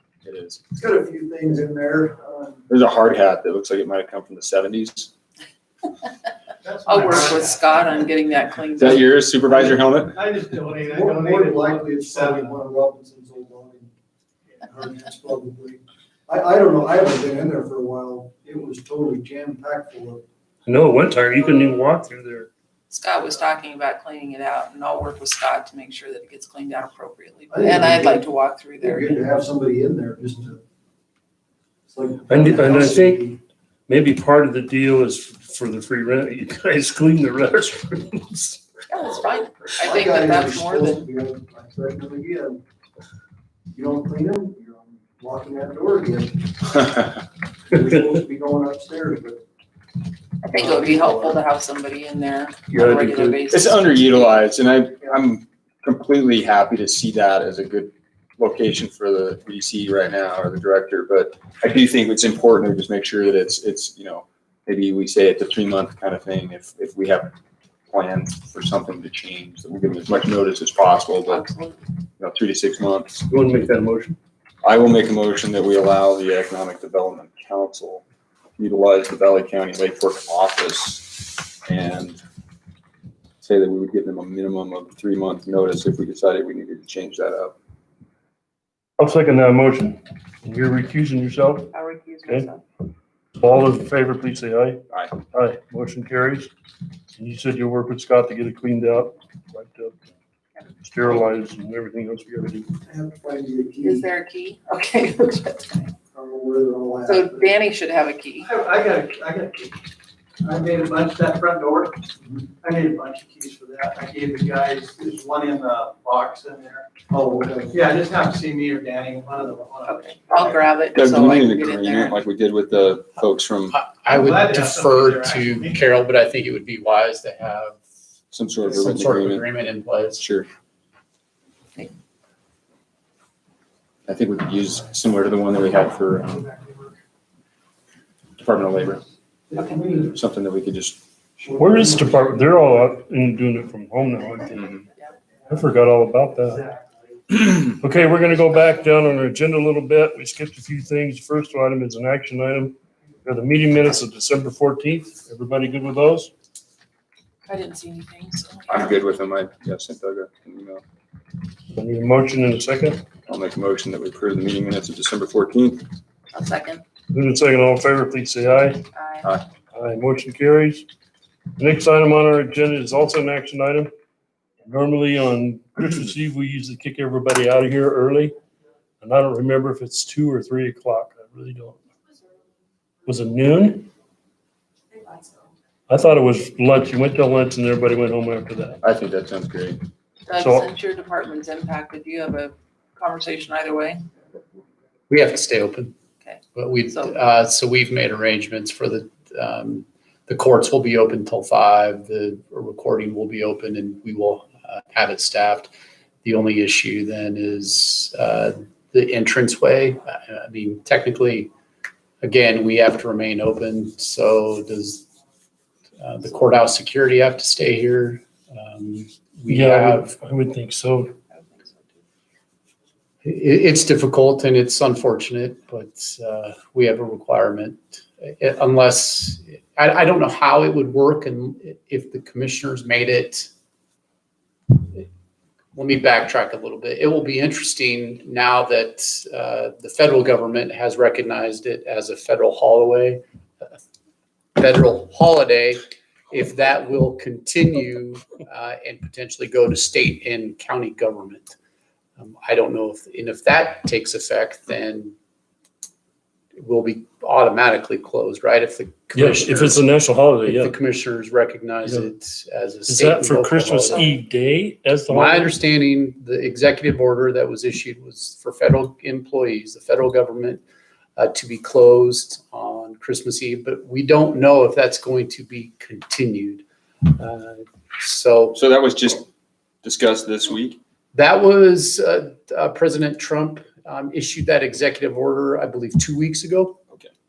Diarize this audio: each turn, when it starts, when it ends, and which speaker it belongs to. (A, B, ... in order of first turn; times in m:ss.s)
0:00.2-0:00.6 A
0:00.7-0:02.7 B
0:02.7-0:05.1 A
0:06.6-0:08.0 C
0:06.8-0:09.1 D
0:08.8-0:10.2 A
0:10.1-0:12.6 C
0:10.9-0:13.9 B
0:14.6-0:20.2 B
0:20.6-0:22.5 E
0:22.9-0:29.2 D
0:27.5-0:28.2 B
0:28.8-0:30.6 B
0:31.9-0:33.4 B
0:32.3-0:33.3 E
0:33.9-0:38.6 E
0:38.9-0:41.0 D
0:39.8-0:42.6 B
0:43.7-0:47.1 B
0:47.7-0:49.4 B
0:50.4-0:53.8 D
0:50.5-0:51.4 B
0:52.7-0:53.4 E
0:53.5-1:07.3 A
1:07.9-1:11.4 A
1:11.2-1:11.9 D
1:12.2-1:13.2 A
1:13.3-1:14.2 E
1:14.6-1:18.0 A
1:18.6-1:22.2 A
1:23.4-1:27.5 A
1:29.0-1:31.7 E
1:31.7-1:32.6 D
1:33.4-1:36.5 E
1:34.9-1:35.2 A
1:37.2-1:39.9 E
1:40.8-1:42.7 E
1:42.8-1:44.1 B
1:43.8-1:45.9 D
1:46.1-1:47.5 B
1:47.0-1:48.5 D
1:48.4-1:49.8 C
1:50.4-1:52.1 C
1:52.6-1:56.9 C
1:57.1-1:57.8 B
1:57.7-2:00.6 C
1:59.9-2:02.2 D
2:00.9-2:03.8 A
2:03.7-2:07.8 F
2:04.1-2:05.8 C
2:08.3-2:09.5 A
2:08.7-2:10.2 F
2:10.2-2:10.5 A
2:14.1-2:16.5 A
2:18.4-2:19.0 A
2:19.5-2:20.1 B
2:20.1-2:21.0 A
2:21.4-2:22.9 B
2:21.6-2:24.8 E
2:25.5-2:26.6 E
2:26.5-2:26.8 C
2:27.6-2:36.3 E
2:37.4-2:38.9 D
2:38.7-2:40.8 A
2:41.7-2:43.0 E
2:43.3-2:45.9 A
2:46.3-2:46.8 D
2:47.1-2:48.8 E
2:48.9-2:49.3 D
2:49.7-2:50.9 E
2:51.6-2:53.9 E
2:54.6-2:58.3 E
2:59.0-3:01.8 E
3:03.0-3:03.9 E
3:05.9-3:08.8 E
3:08.8-3:09.8 A
3:10.2-3:14.0 D
3:10.4-3:10.7 E
3:15.1-3:15.9 F
3:16.5-3:25.7 F
3:26.2-3:31.5 F
3:32.2-3:35.0 F
3:36.0-3:40.1 F
3:39.5-3:41.1 E
3:41.3-3:42.0 D
3:43.2-3:53.5 F
3:54.7-3:55.1 F
3:55.7-4:03.2 F
4:04.6-4:11.5 F
4:12.2-4:15.1 F
4:16.6-4:19.8 F
4:19.1-4:20.8 E
4:20.4-4:24.1 F
4:21.8-4:22.1 E
4:22.9-4:25.5 E
4:25.1-4:30.6 F
4:31.2-4:38.6 F
4:38.5-4:39.3 A
4:39.8-4:40.8 A
4:41.1-4:46.8 F